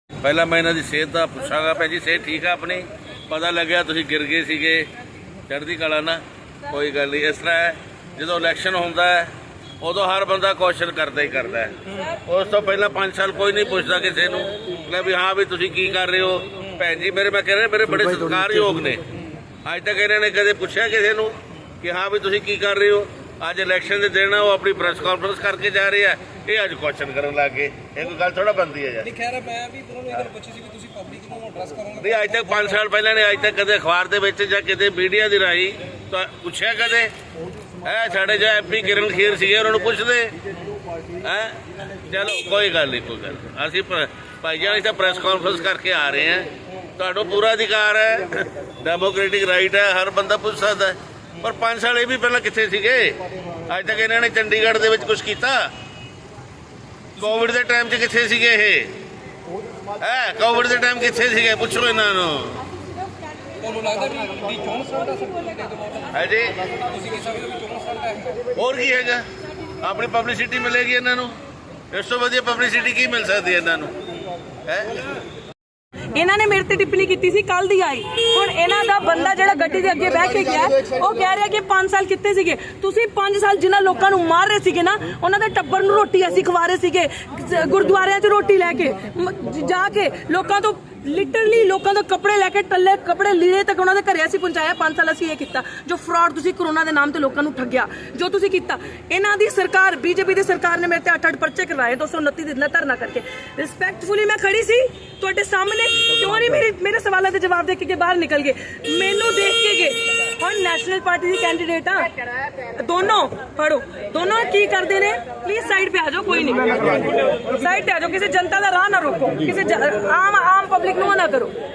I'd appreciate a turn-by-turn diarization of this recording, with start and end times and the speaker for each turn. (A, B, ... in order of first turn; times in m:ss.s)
0:00.2-0:04.9 A
0:05.5-0:19.0 A
0:19.6-0:29.1 A
0:29.0-0:32.8 B
0:32.0-0:37.1 A
0:37.8-0:40.4 A
0:41.2-0:55.7 A
0:57.2-0:58.9 A
1:00.0-1:02.6 A
1:03.6-1:08.4 B
1:06.1-1:06.6 A
1:08.5-1:09.2 A
1:09.8-1:11.3 A
1:11.9-1:14.0 A
1:14.6-1:15.0 A
1:16.1-1:52.1 C
1:52.6-2:01.5 C